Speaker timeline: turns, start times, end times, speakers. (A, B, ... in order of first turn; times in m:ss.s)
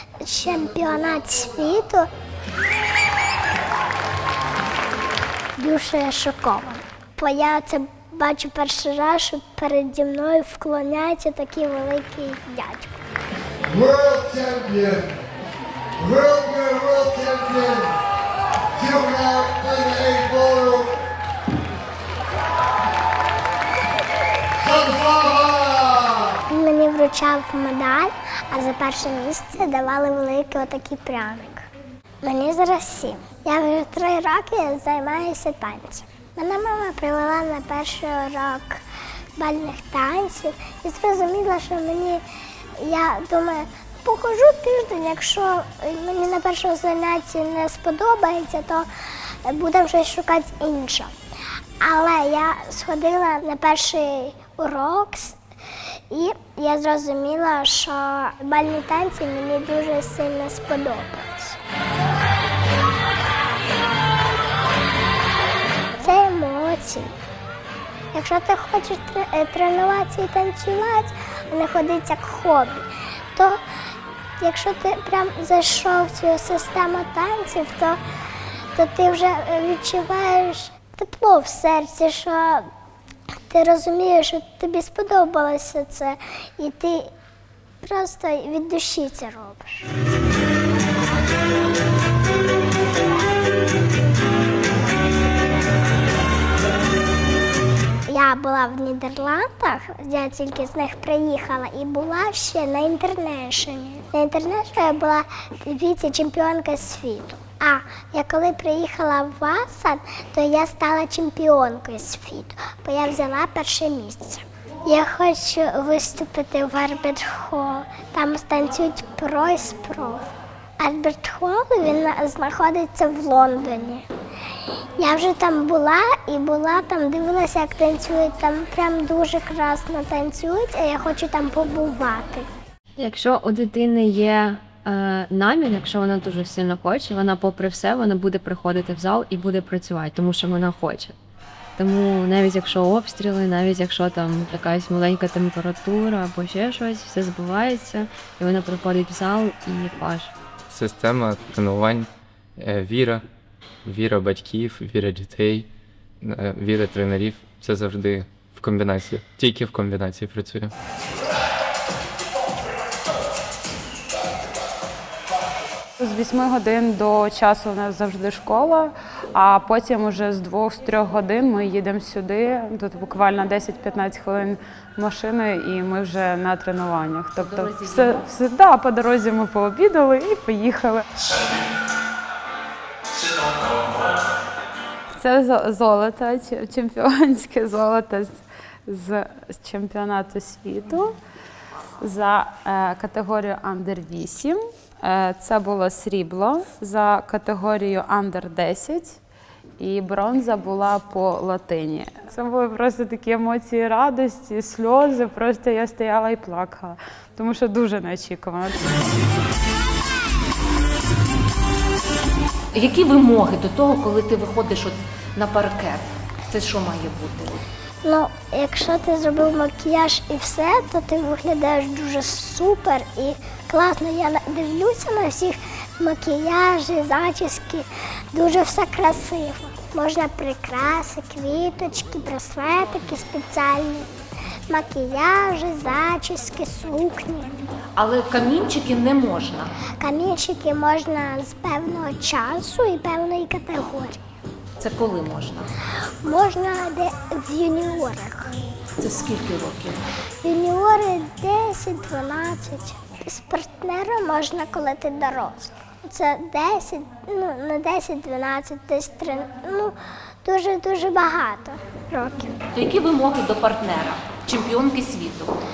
0:00.2-0:02.1 A
0:05.6-0:13.0 A
0:13.7-0:15.1 B
0:16.0-0:17.8 B
0:18.8-0:20.8 B
0:24.9-0:25.9 B
0:26.5-0:31.7 A
0:32.2-0:38.8 A
0:39.4-0:42.2 A
0:42.8-0:48.9 A
0:49.4-0:51.1 A
0:51.8-0:55.4 A
0:56.1-1:01.6 A
1:06.0-1:07.1 A
1:08.1-1:13.6 A
1:14.4-1:18.0 A
1:18.7-1:22.7 A
1:23.5-1:27.1 A
1:27.8-1:29.9 A
1:38.1-2:00.2 A
2:00.8-2:04.0 A
2:05.0-2:12.5 A
2:13.0-2:21.2 B
2:21.8-2:30.3 B
2:30.7-2:33.2 C
2:33.8-2:35.7 C
2:36.2-2:40.7 C
2:46.0-3:01.0 D
2:57.4-2:58.3 E
3:05.2-3:11.2 D
3:12.0-3:19.2 D
3:19.8-3:28.9 D
3:32.7-3:37.6 E
3:38.0-3:54.1 A
3:54.7-3:57.5 A
3:58.0-3:59.7 E
4:00.0-4:04.2 A
4:04.8-4:05.7 E
4:06.2-4:08.5 A
4:09.0-4:10.0 E
4:10.4-4:22.6 A
4:22.7-4:25.5 E